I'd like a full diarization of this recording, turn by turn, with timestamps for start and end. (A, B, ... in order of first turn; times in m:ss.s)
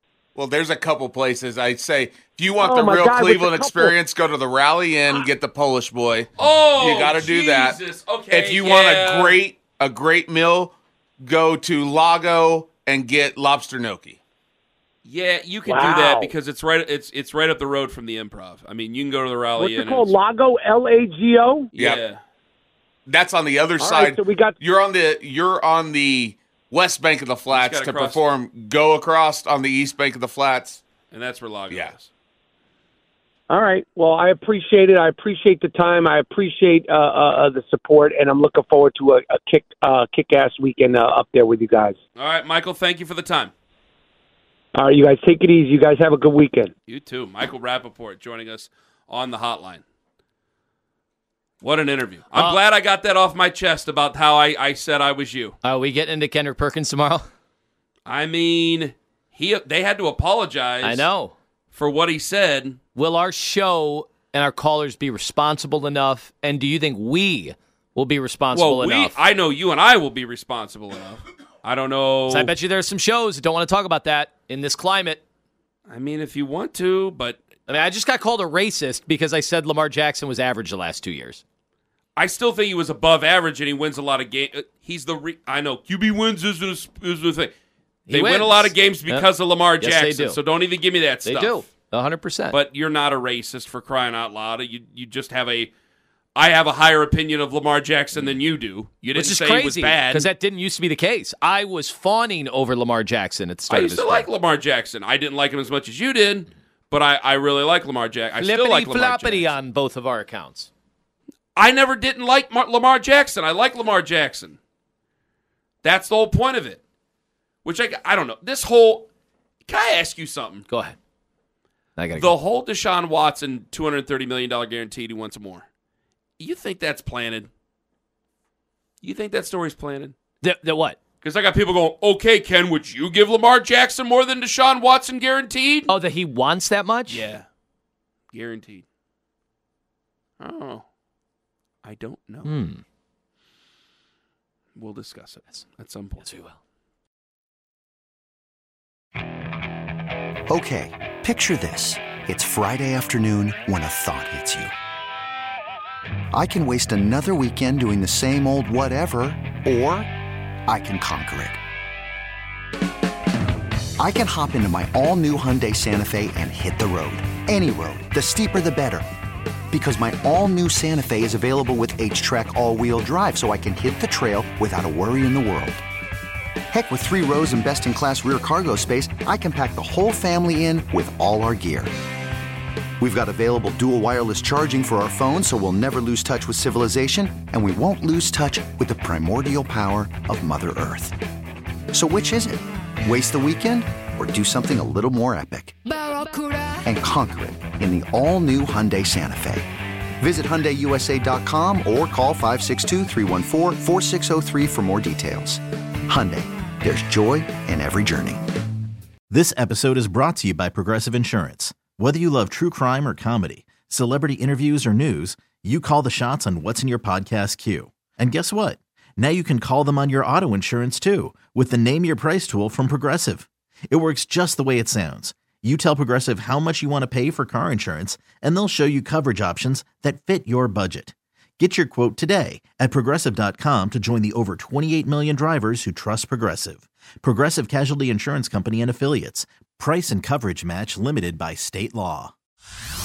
0:00.4-0:07.8 A
0:02.6-0:04.0 B
0:06.4-0:09.4 C
0:08.3-0:14.2 A
0:15.0-0:20.2 C
0:15.7-0:16.3 B
0:19.6-0:21.7 B
0:21.7-0:22.2 C
0:21.8-0:22.0 A
0:23.1-0:30.8 A
0:23.8-0:24.6 B
0:27.5-0:28.2 C
0:31.1-0:32.1 C
0:33.5-0:42.0 B
0:42.2-0:43.5 C
0:44.7-0:46.7 B
0:46.9-0:49.8 C
0:51.6-0:55.6 C
0:55.6-0:57.2 D
0:58.0-1:01.1 C
1:00.8-1:01.3 D
1:01.7-1:02.8 C
1:03.0-1:09.1 D
1:08.5-1:12.5 C
1:12.3-1:15.2 D
1:15.9-1:17.4 C
1:17.7-1:21.4 D
1:22.2-1:27.5 C
1:28.1-1:29.2 D
1:28.1-1:31.7 C
1:29.8-1:30.4 D
1:31.2-1:32.6 D
1:32.5-1:35.7 C
1:36.4-1:40.3 C
1:39.1-1:44.3 D
1:43.7-1:49.5 C
1:48.4-1:50.7 D
1:51.6-1:54.6 C
1:55.8-1:56.8 C
1:57.6-1:59.1 C
1:59.7-2:00.6 C
2:00.7-2:01.0 D
2:02.0-2:02.3 D
2:02.2-2:05.6 C
2:06.4-2:07.5 C
2:09.0-2:10.1 C
2:10.4-2:11.0 D
2:11.2-2:15.9 C
2:15.9-2:17.2 D
2:17.1-2:17.4 C
2:18.3-2:18.8 C
2:20.4-2:20.8 C
2:21.8-2:22.5 C
2:22.4-2:22.8 D
2:24.8-2:26.2 C
2:26.2-2:26.5 D
2:30.5-2:34.7 E
2:36.3-2:40.1 E
2:40.7-2:41.6 E
2:44.0-2:49.0 E
2:49.7-2:55.8 E
2:56.7-3:01.9 E
3:03.0-3:11.2 E
3:11.9-3:15.8 E
3:16.8-3:19.7 E
3:20.2-3:28.4 E
3:29.3-4:02.3 F